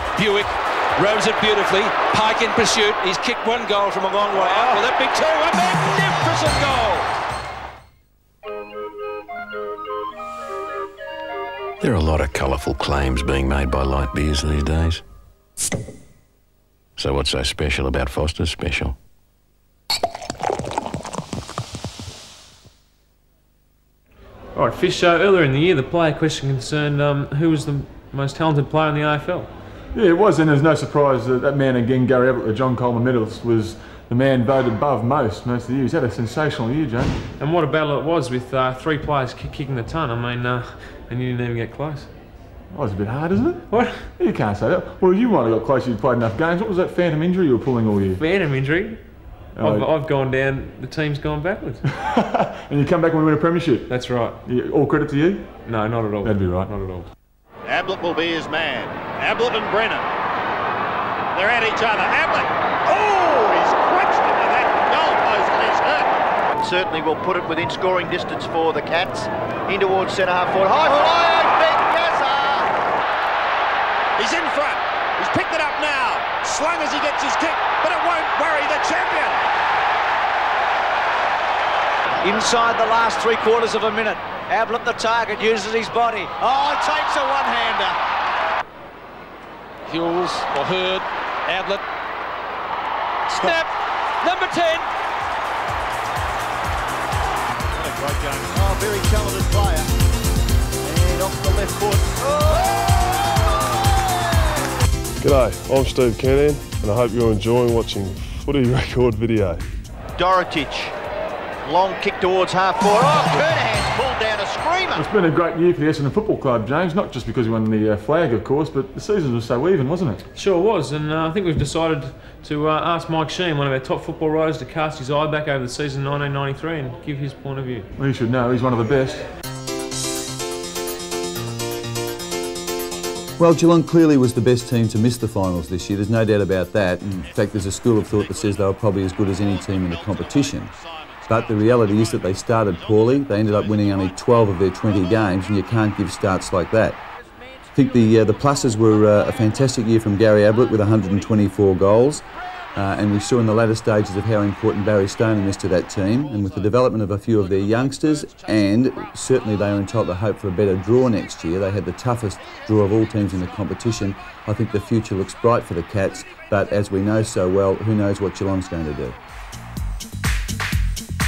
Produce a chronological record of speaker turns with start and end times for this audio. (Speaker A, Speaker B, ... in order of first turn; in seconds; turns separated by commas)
Speaker A: 0.2-7.0, Speaker B: 11.8-15.0, Speaker B: 17.0-18.9, Speaker C: 24.5-29.5, Speaker D: 29.9-37.2, Speaker C: 37.4-42.1, Speaker D: 42.7-48.2, Speaker C: 43.7-44.1, Speaker C: 48.2-49.1, Speaker D: 49.5-49.9, Speaker C: 49.6-51.8, Speaker D: 51.9-53.9, Speaker C: 53.9-54.4, Speaker D: 54.4-55.5, Speaker C: 55.6-57.0, Speaker D: 56.2-56.7, Speaker E: 57.6-60.1, Speaker E: 61.3-66.1, Speaker F: 66.5-72.7, Speaker E: 74.2-79.4, Speaker G: 82.2-86.4, Speaker G: 87.0-87.9, Speaker A: 89.9-91.8, Speaker G: 93.4-93.6, Speaker G: 94.2-94.8, Speaker F: 98.5-99.9, Speaker F: 100.8-103.6, Speaker H: 105.2-109.6, Speaker F: 110.2-110.9, Speaker F: 111.6-115.0, Speaker D: 115.0-120.2, Speaker C: 120.3-127.9, Speaker D: 128.0-129.2, Speaker I: 133.4-140.7, Speaker I: 141.3-147.0, Speaker I: 147.7-152.2, Speaker I: 152.7-169.2